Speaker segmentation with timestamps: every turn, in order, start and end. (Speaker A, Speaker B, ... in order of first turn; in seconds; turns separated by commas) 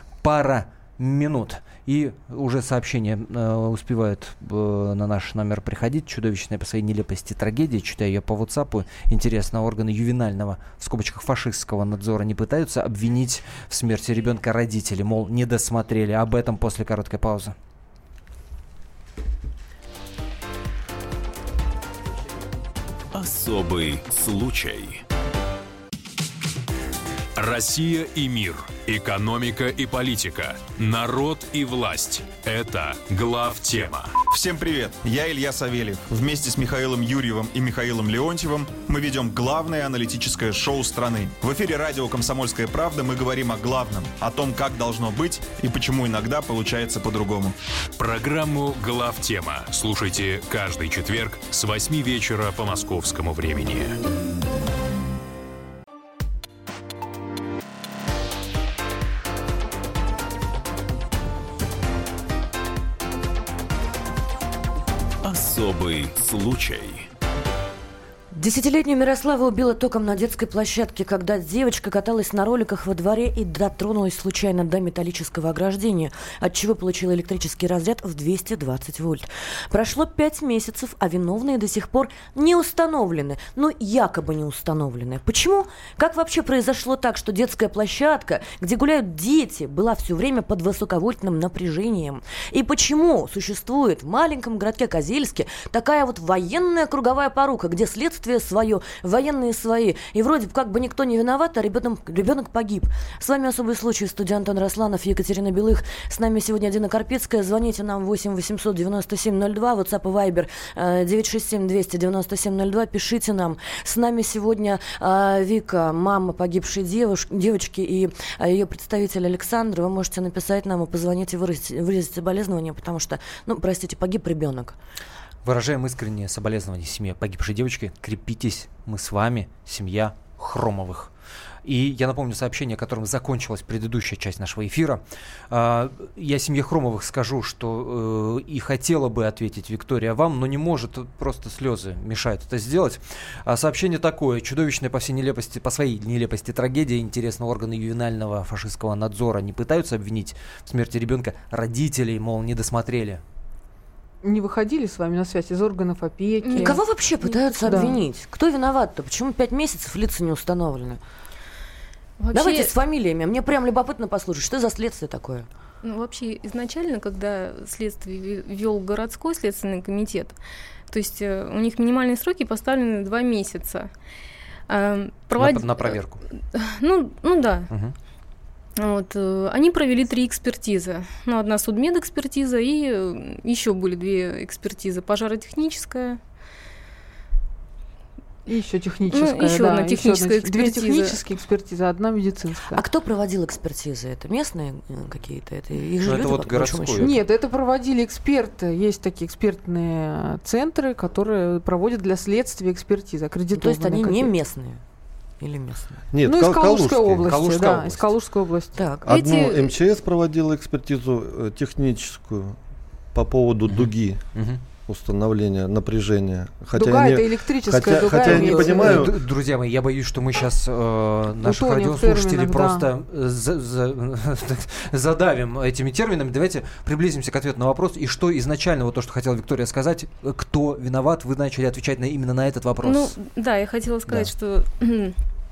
Speaker A: 0.2-17.5, Speaker B: 23.1-25.0, Speaker B: 27.4-34.2, Speaker C: 34.2-47.5, Speaker B: 48.0-54.0, Speaker B: 65.2-67.1, Speaker D: 68.3-124.8, Speaker A: 125.4-131.1, Speaker A: 131.6-153.2, Speaker E: 154.2-156.8, Speaker F: 156.4-157.8, Speaker D: 156.6-161.0, Speaker E: 157.6-158.0, Speaker F: 162.2-162.7, Speaker D: 162.3-165.5, Speaker F: 165.8-170.3, Speaker F: 170.9-173.9, Speaker F: 174.7-177.7, Speaker A: 175.3-176.2, Speaker F: 178.8-186.2, Speaker E: 188.5-192.8, Speaker F: 189.1-191.2, Speaker D: 192.7-197.2, Speaker A: 196.0-197.1, Speaker E: 197.0-204.3, Speaker D: 203.5-204.8, Speaker D: 205.4-206.1, Speaker G: 206.1-207.3, Speaker E: 206.2-208.9, Speaker A: 207.2-208.1, Speaker D: 208.8-209.1, Speaker G: 209.0-212.6, Speaker F: 209.1-209.6, Speaker G: 213.1-214.2, Speaker A: 213.7-214.6, Speaker G: 214.8-219.2, Speaker E: 216.7-219.1, Speaker A: 218.2-233.1, Speaker E: 221.4-222.8, Speaker F: 232.8-235.1